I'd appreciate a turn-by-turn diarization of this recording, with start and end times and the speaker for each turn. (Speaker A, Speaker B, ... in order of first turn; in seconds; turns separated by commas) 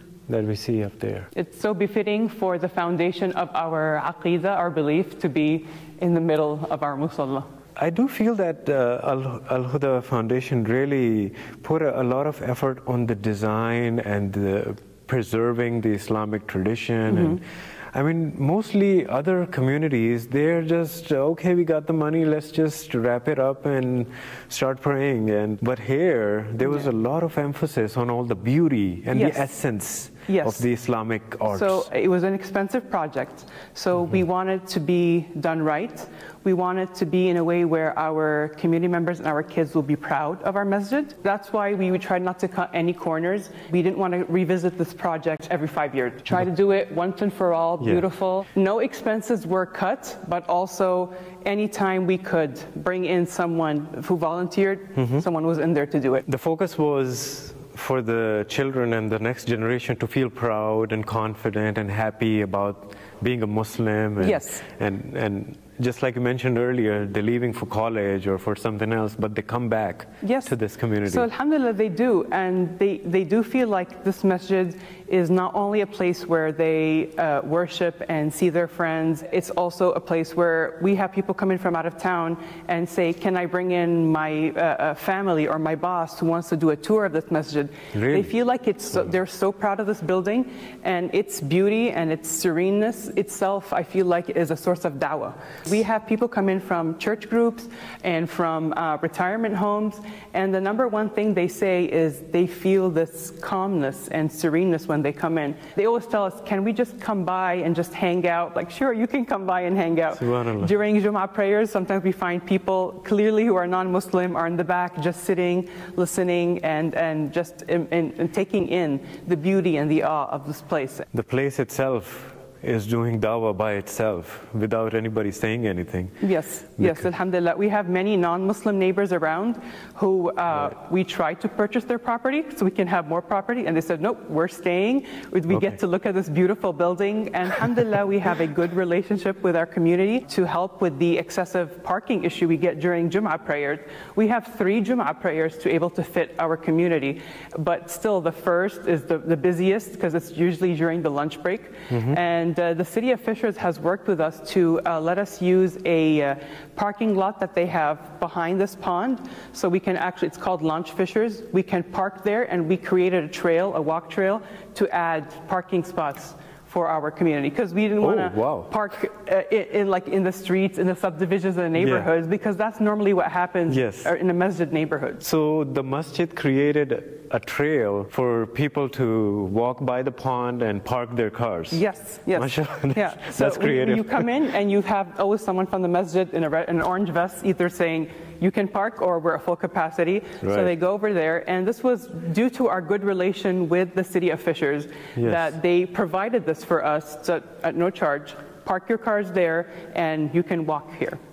Speaker A: 0.3-1.3, Speaker B: 1.3-7.5, Speaker A: 7.8-31.9, Speaker B: 17.1-17.4, Speaker B: 29.1-29.5, Speaker B: 30.3-30.7, Speaker B: 31.5-56.2, Speaker A: 47.8-48.0, Speaker A: 55.0-55.2, Speaker A: 56.3-71.3, Speaker B: 64.2-64.6, Speaker B: 70.2-70.5, Speaker B: 71.0-121.1, Speaker A: 87.9-88.3, Speaker A: 110.2-110.7, Speaker A: 121.1-127.1, Speaker B: 126.2-175.2, Speaker A: 135.5-135.8, Speaker A: 151.9-152.2, Speaker A: 168.0-168.7, Speaker A: 171.8-172.1, Speaker A: 173.7-174.1, Speaker A: 175.2-184.3, Speaker B: 181.7-201.2, Speaker A: 190.4-190.7, Speaker A: 195.1-195.6